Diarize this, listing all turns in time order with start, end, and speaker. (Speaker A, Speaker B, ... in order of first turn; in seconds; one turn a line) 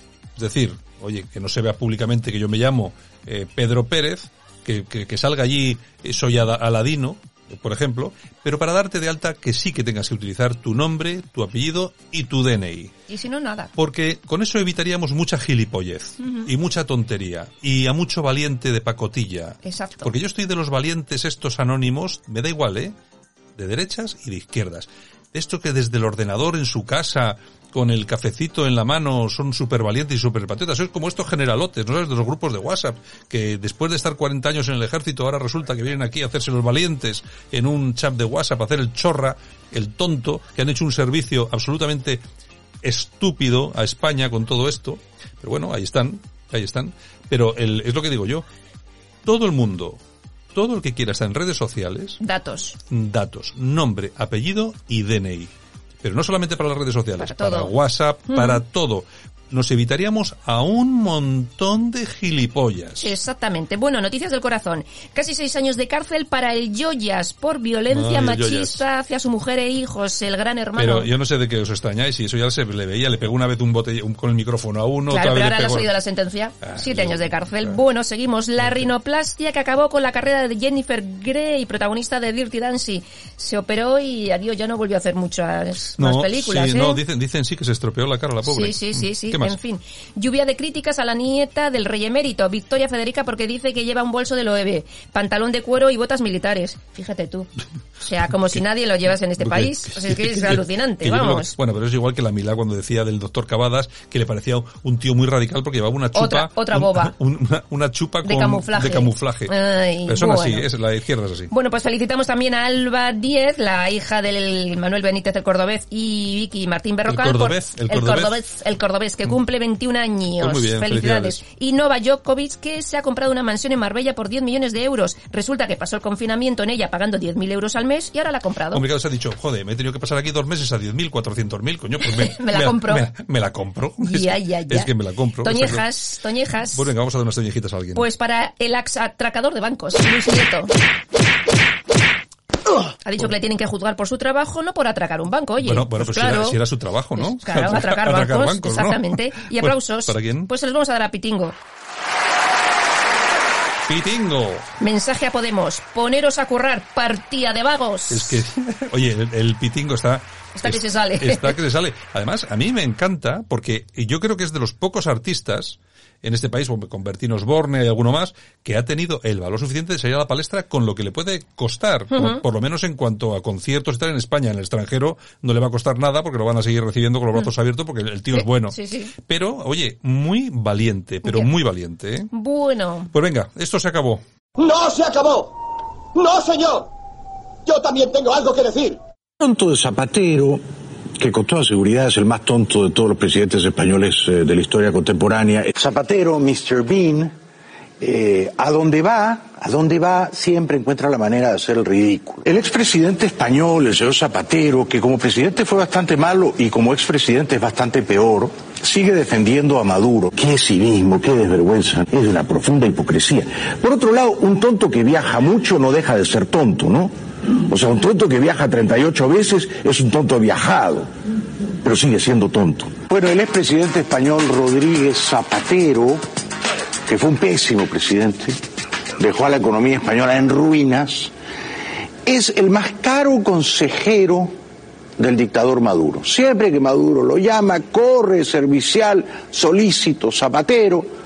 Speaker A: 0.3-12.9
Speaker B: 13.1-13.7
Speaker A: 13.8-22.9
Speaker B: 16.2-16.5
Speaker B: 19.6-20.1
Speaker A: 23.6-42.2
Speaker A: 42.8-48.4
Speaker A: 49.2-50.0
Speaker A: 50.5-52.2
Speaker B: 52.2-52.8
Speaker A: 52.9-63.1
Speaker B: 57.2-57.7
Speaker B: 58.3-58.6
Speaker B: 63.0-71.1
Speaker A: 67.9-68.8
Speaker A: 70.8-75.9
Speaker B: 75.1-87.0
Speaker A: 76.6-77.8
Speaker A: 78.6-78.9
Speaker A: 86.0-89.6
Speaker B: 88.4-97.5
Speaker B: 98.0-101.5
Speaker A: 99.4-111.5
Speaker B: 106.1-107.1
Speaker B: 108.2-110.7
Speaker B: 111.5-128.8
Speaker A: 117.0-118.4
Speaker A: 120.3-121.4
Speaker A: 128.7-136.0
Speaker B: 132.0-133.1
Speaker B: 134.0-136.9
Speaker A: 136.7-138.1
Speaker B: 137.9-140.7
Speaker B: 143.0-146.6
Speaker A: 145.6-150.5
Speaker B: 147.1-151.6
Speaker A: 153.8-154.7
Speaker B: 154.8-158.4
Speaker A: 158.1-182.3
Speaker B: 160.5-161.6
Speaker B: 172.1-172.4
Speaker B: 178.3-179.1
Speaker B: 181.2-181.5
Speaker B: 182.3-183.1
Speaker A: 183.1-184.2
Speaker C: 184.7-185.5
Speaker C: 186.2-186.8
Speaker C: 187.7-188.9
Speaker D: 189.4-190.6
Speaker D: 191.2-197.3
Speaker D: 198.0-221.1
Speaker D: 221.8-226.2
Speaker D: 227.1-228.6
Speaker D: 229.2-231.3
Speaker D: 232.2-234.5
Speaker D: 235.2-241.1